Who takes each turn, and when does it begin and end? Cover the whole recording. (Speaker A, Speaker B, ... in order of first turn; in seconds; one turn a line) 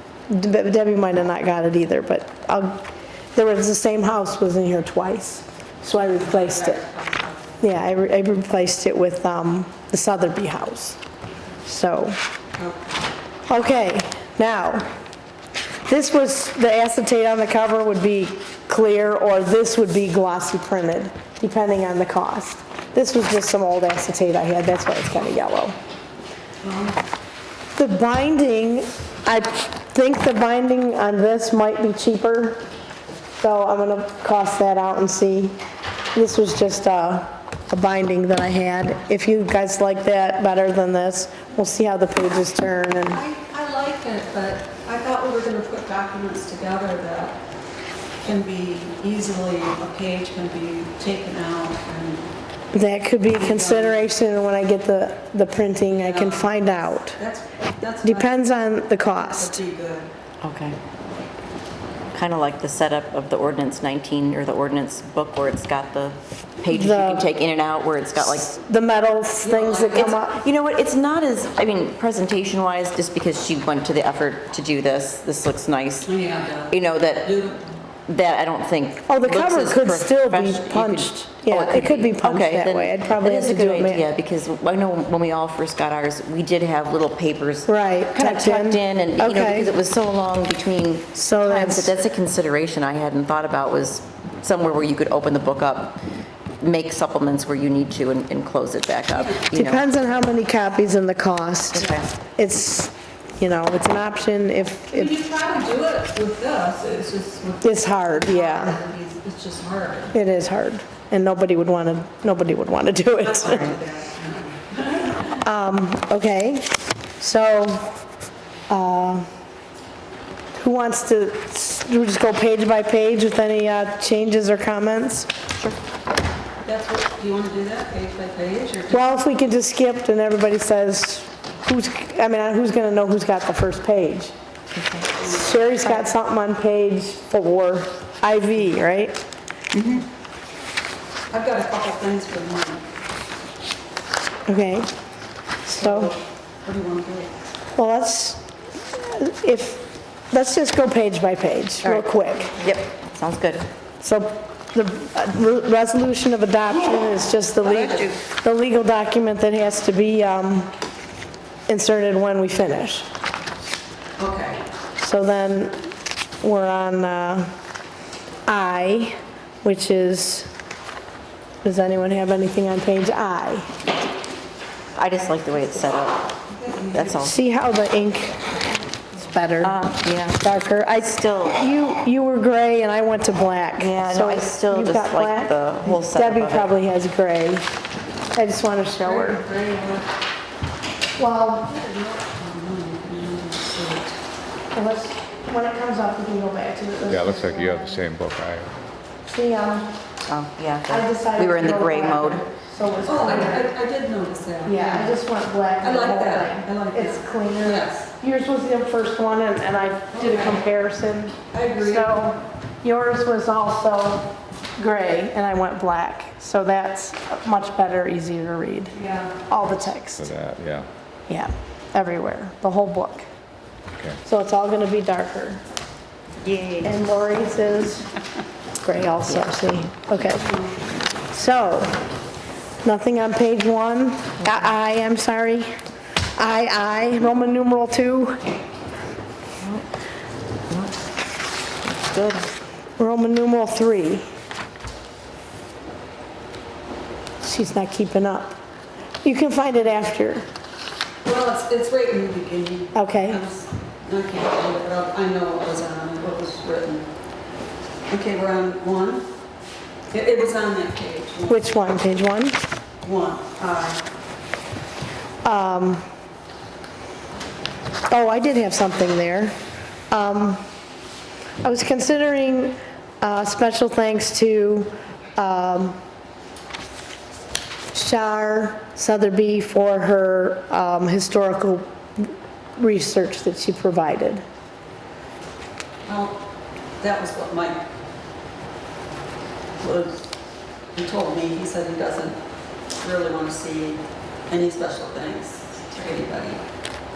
Speaker A: 0.3-6.8
Speaker B: 6.0-7.6
Speaker A: 7.6-11.0
Speaker A: 11.7-12.2
Speaker B: 12.6-13.0
Speaker A: 13.5-14.9
Speaker A: 15.9-25.8
Speaker B: 26.6-27.0
Speaker A: 27.8-32.6
Speaker A: 33.4-35.6
Speaker A: 36.1-43.2
Speaker B: 43.1-47.4
Speaker B: 48.2-52.3
Speaker A: 52.7-57.2
Speaker B: 53.4-54.1
Speaker B: 56.0-60.1
Speaker A: 58.0-59.6
Speaker C: 60.4-60.8
Speaker C: 62.1-68.5
Speaker A: 66.7-67.3
Speaker A: 68.2-70.4
Speaker B: 69.4-70.2
Speaker C: 70.0-76.1
Speaker B: 76.0-77.7
Speaker C: 76.7-77.3
Speaker C: 78.1-96.0
Speaker A: 79.1-84.0
Speaker A: 87.7-89.7
Speaker A: 91.2-91.9
Speaker C: 96.6-99.9
Speaker B: 99.1-99.5
Speaker A: 99.5-105.1
Speaker C: 101.7-102.1
Speaker B: 104.9-110.1
Speaker A: 107.6-108.8
Speaker A: 110.1-113.7
Speaker B: 113.2-115.4
Speaker A: 115.4-118.0
Speaker A: 118.7-119.3
Speaker A: 120.6-125.3
Speaker B: 126.6-129.2
Speaker A: 128.9-134.3
Speaker C: 134.8-135.1
Speaker B: 135.2-135.8
Speaker A: 135.2-139.2
Speaker C: 139.7-140.1
Speaker B: 141.3-142.9
Speaker A: 144.5-144.9
Speaker A: 145.7-146.1
Speaker B: 145.8-147.3
Speaker A: 147.8-148.4
Speaker A: 148.9-152.6
Speaker C: 151.8-153.7
Speaker A: 154.0-160.7
Speaker C: 157.6-158.1
Speaker B: 157.7-158.2
Speaker A: 161.7-163.1
Speaker B: 164.2-164.6
Speaker A: 165.0-165.9
Speaker A: 166.4-167.5
Speaker A: 168.5-170.5
Speaker A: 171.6-173.7
Speaker C: 174.9-176.3
Speaker B: 176.5-177.2
Speaker C: 176.9-177.3
Speaker A: 177.2-178.5
Speaker A: 179.1-179.8
Speaker C: 179.6-181.6
Speaker A: 180.4-187.7
Speaker C: 183.8-186.7
Speaker A: 188.3-189.4
Speaker B: 189.0-190.1
Speaker A: 191.2-191.7
Speaker B: 191.6-194.2
Speaker A: 194.7-198.0
Speaker D: 197.1-198.7
Speaker A: 199.3-200.0
Speaker C: 200.3-202.4
Speaker A: 200.9-203.7
Speaker B: 203.1-205.2
Speaker A: 204.7-218.9
Speaker B: 205.8-208.1
Speaker B: 210.1-210.6
Speaker B: 211.5-212.2
Speaker B: 218.9-219.4
Speaker A: 219.5-220.3
Speaker D: 219.9-220.9
Speaker A: 221.3-223.3
Speaker A: 224.2-225.6
Speaker C: 226.4-227.0
Speaker A: 226.8-228.1
Speaker A: 228.8-230.4
Speaker B: 230.2-230.8
Speaker A: 231.3-232.0
Speaker A: 232.8-235.7
Speaker C: 234.4-234.7
Speaker A: 236.4-238.5
Speaker C: 240.7-240.9
Speaker C: 241.8-242.5
Speaker A: 243.0-244.3
Speaker A: 247.4-248.6
Speaker A: 249.2-250.5
Speaker B: 251.2-257.1
Speaker A: 252.9-253.4
Speaker B: 258.1-259.3
Speaker B: 260.1-261.7
Speaker A: 261.5-262.6
Speaker B: 263.0-264.0
Speaker A: 265.4-266.0
Speaker A: 268.1-269.6
Speaker A: 270.1-270.6
Speaker A: 271.6-276.0
Speaker A: 277.9-284.4
Speaker B: 286.1-286.4
Speaker B: 287.0-287.8
Speaker B: 289.8-290.3
Speaker B: 290.9-292.4
Speaker B: 293.0-296.6